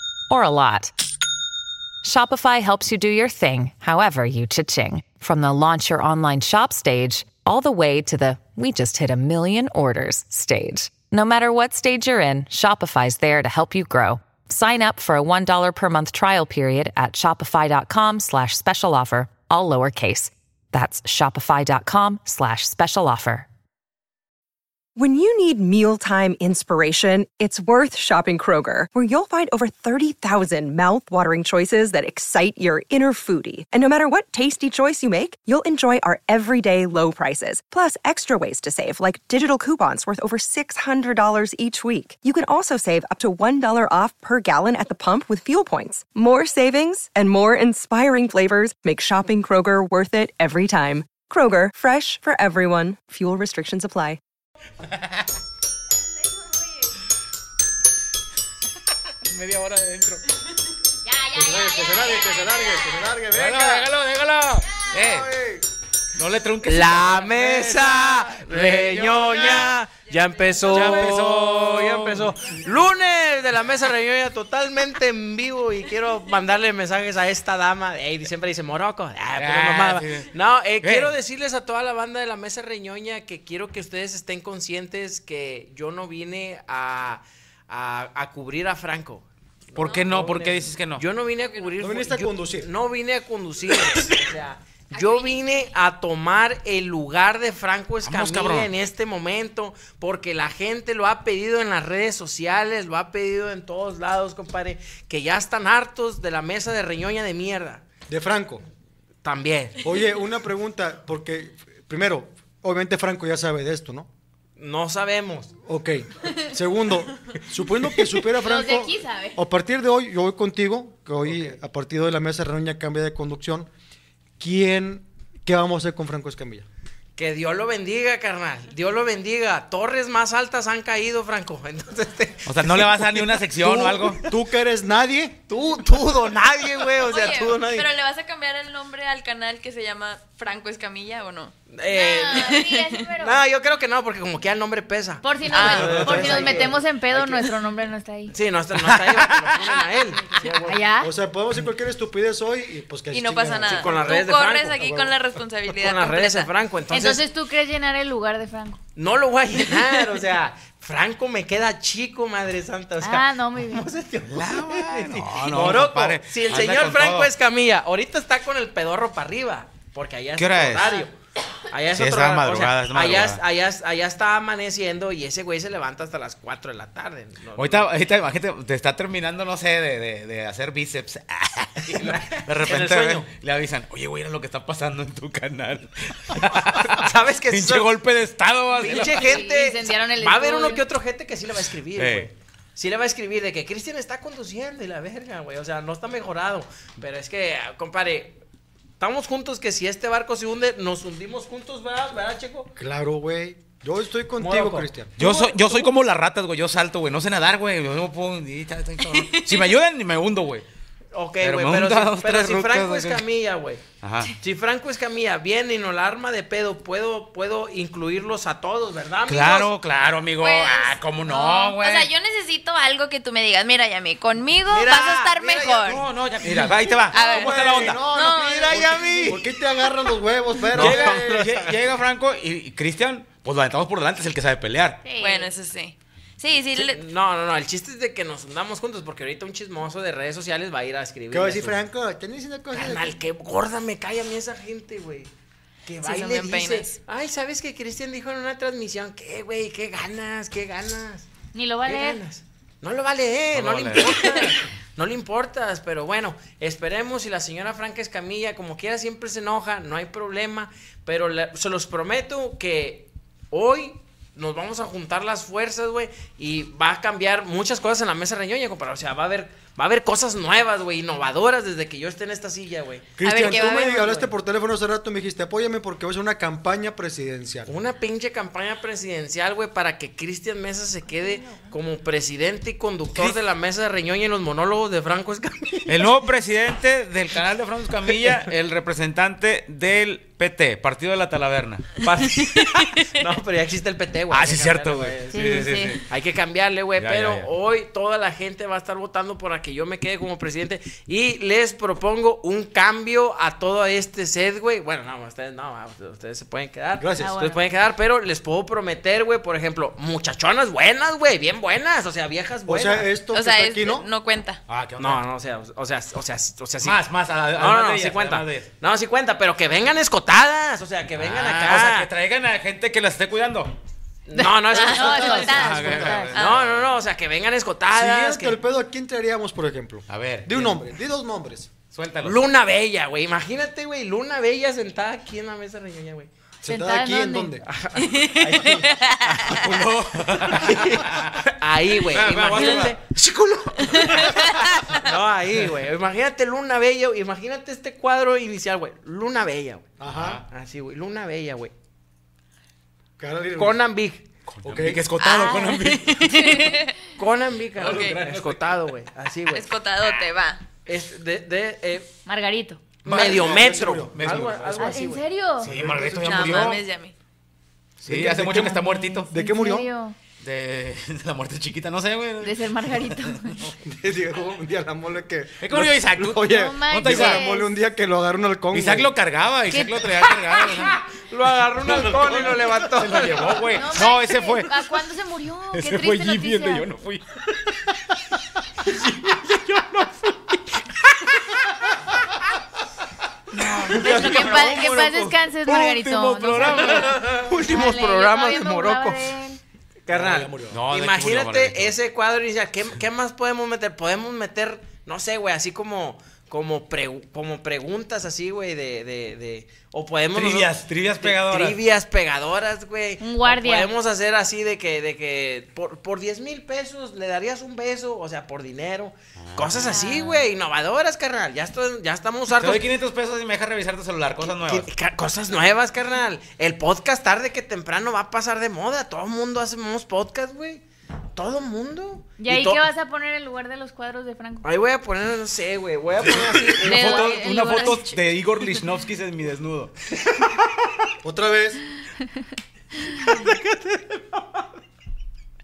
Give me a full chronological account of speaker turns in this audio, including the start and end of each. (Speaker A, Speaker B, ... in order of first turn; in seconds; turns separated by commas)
Speaker A: 0.3-0.9, Speaker A: 2.0-23.5, Speaker B: 24.9-54.2, Speaker C: 59.2-60.2, Speaker D: 61.0-63.0, Speaker E: 61.3-63.9, Speaker C: 63.3-65.3, Speaker E: 64.9-65.6, Speaker C: 66.1-69.8, Speaker F: 66.6-107.8, Speaker G: 70.2-70.6, Speaker C: 70.6-72.3, Speaker C: 79.4-80.3, Speaker C: 80.8-81.1, Speaker C: 89.8-91.0, Speaker G: 89.8-90.2, Speaker G: 91.4-91.7, Speaker E: 91.8-92.7, Speaker G: 94.9-95.4, Speaker C: 98.0-98.7, Speaker E: 108.1-108.6, Speaker F: 109.2-109.8, Speaker E: 109.8-114.1, Speaker F: 114.6-115.5, Speaker E: 115.6-123.7, Speaker D: 118.3-119.4, Speaker E: 124.4-126.7, Speaker F: 127.2-134.1, Speaker C: 132.4-134.2, Speaker E: 133.6-135.4, Speaker F: 135.5-137.9, Speaker G: 137.0-141.5, Speaker F: 141.7-142.6, Speaker D: 141.9-143.4, Speaker G: 142.2-143.1, Speaker F: 143.2-147.5, Speaker D: 145.2-148.3, Speaker G: 145.5-145.9, Speaker E: 145.6-146.7, Speaker F: 148.3-150.8, Speaker C: 148.8-149.6, Speaker D: 150.6-151.1, Speaker E: 151.0-154.0, Speaker G: 153.1-156.5, Speaker F: 153.6-154.9, Speaker E: 154.8-155.1, Speaker F: 155.7-157.2, Speaker D: 156.9-158.8, Speaker F: 158.9-171.1, Speaker D: 163.0-163.9, Speaker C: 164.3-167.3, Speaker C: 170.4-170.9, Speaker D: 170.8-171.1, Speaker F: 171.7-177.9, Speaker C: 171.9-173.4, Speaker C: 177.6-189.4, Speaker F: 181.9-183.3, Speaker F: 186.4-187.9, Speaker F: 188.8-198.4, Speaker D: 189.0-190.8, Speaker C: 191.9-192.3, Speaker F: 199.0-202.7, Speaker E: 202.8-205.1, Speaker F: 204.4-205.9, Speaker C: 205.2-210.6, Speaker G: 209.0-209.8, Speaker F: 211.1-213.8, Speaker C: 211.4-213.2, Speaker C: 214.0-214.3, Speaker F: 214.4-219.7, Speaker C: 219.3-222.1, Speaker G: 220.4-229.4, Speaker F: 224.7-226.0, Speaker C: 225.7-228.0, Speaker E: 227.1-231.2, Speaker C: 228.8-229.2, Speaker F: 228.9-229.3, Speaker C: 230.7-235.0, Speaker F: 230.7-231.8, Speaker D: 235.0-235.5, Speaker G: 235.2-237.0, Speaker F: 236.7-241.8, Speaker E: 241.3-243.1, Speaker F: 242.7-245.3, Speaker F: 245.8-251.3, Speaker G: 246.0-247.0, Speaker D: 251.5-252.2, Speaker F: 251.8-273.2, Speaker C: 253.5-254.2, Speaker E: 273.2-277.7, Speaker G: 273.2-274.1, Speaker F: 274.0-274.3, Speaker F: 277.7-286.1, Speaker D: 281.2-281.7, Speaker C: 283.1-283.4, Speaker C: 285.9-291.9, Speaker F: 292.0-313.1, Speaker C: 294.3-296.0, Speaker D: 295.3-296.0, Speaker C: 297.0-297.5, Speaker E: 307.0-307.4, Speaker D: 307.2-307.6, Speaker E: 312.7-314.1, Speaker G: 313.3-314.6, Speaker C: 314.7-315.2, Speaker F: 315.0-317.0, Speaker C: 316.8-318.7, Speaker F: 317.5-322.1, Speaker C: 321.2-323.7, Speaker F: 324.3-328.6, Speaker D: 324.3-326.4, Speaker G: 324.7-325.7, Speaker E: 324.8-326.3, Speaker C: 325.6-326.9, Speaker E: 327.9-331.7, Speaker C: 330.1-330.8, Speaker C: 331.9-332.4, Speaker F: 332.2-336.3, Speaker E: 336.6-337.6, Speaker D: 336.7-337.6, Speaker F: 337.6-338.8, Speaker G: 337.9-339.8, Speaker E: 338.4-338.9, Speaker C: 339.4-341.4, Speaker F: 340.5-343.0, Speaker C: 342.1-344.6, Speaker G: 343.9-344.5, Speaker F: 344.0-349.9, Speaker E: 350.0-350.4, Speaker C: 350.1-350.4, Speaker F: 350.5-351.7, Speaker E: 353.2-353.8, Speaker F: 353.6-354.2, Speaker C: 354.5-356.6, Speaker E: 354.6-355.0, Speaker G: 355.2-356.9, Speaker F: 357.1-359.7, Speaker C: 357.8-358.7, Speaker G: 357.8-358.2, Speaker G: 359.5-360.6, Speaker F: 360.9-362.1, Speaker D: 362.2-363.0, Speaker C: 363.0-364.9, Speaker E: 363.0-365.0, Speaker F: 363.1-365.2, Speaker D: 364.8-365.7, Speaker C: 365.6-366.8, Speaker E: 365.6-366.6, Speaker G: 366.2-367.1, Speaker C: 368.0-369.3, Speaker E: 368.0-369.9, Speaker D: 368.3-370.2, Speaker C: 370.4-373.7, Speaker D: 372.4-373.6, Speaker E: 373.8-379.1, Speaker C: 375.6-377.4, Speaker D: 376.5-377.7, Speaker C: 378.7-381.0, Speaker D: 379.7-380.9, Speaker F: 380.9-383.7, Speaker C: 381.8-384.9, Speaker D: 383.7-386.9, Speaker C: 385.7-387.6, Speaker C: 389.3-390.4, Speaker C: 393.5-397.3, Speaker F: 393.9-395.1, Speaker D: 394.0-399.6, Speaker G: 394.1-394.5, Speaker F: 396.6-399.3, Speaker F: 400.1-422.9, Speaker E: 400.1-400.8, Speaker C: 400.7-401.9, Speaker C: 410.3-411.8, Speaker D: 413.2-413.9, Speaker C: 419.4-420.1, Speaker D: 419.9-420.5, Speaker C: 422.5-424.9, Speaker F: 424.4-430.8, Speaker F: 431.3-432.8, Speaker D: 432.4-434.7, Speaker F: 434.6-437.3, Speaker C: 436.2-439.9, Speaker G: 436.8-438.0, Speaker D: 436.9-438.1, Speaker E: 441.2-441.8, Speaker F: 443.2-444.6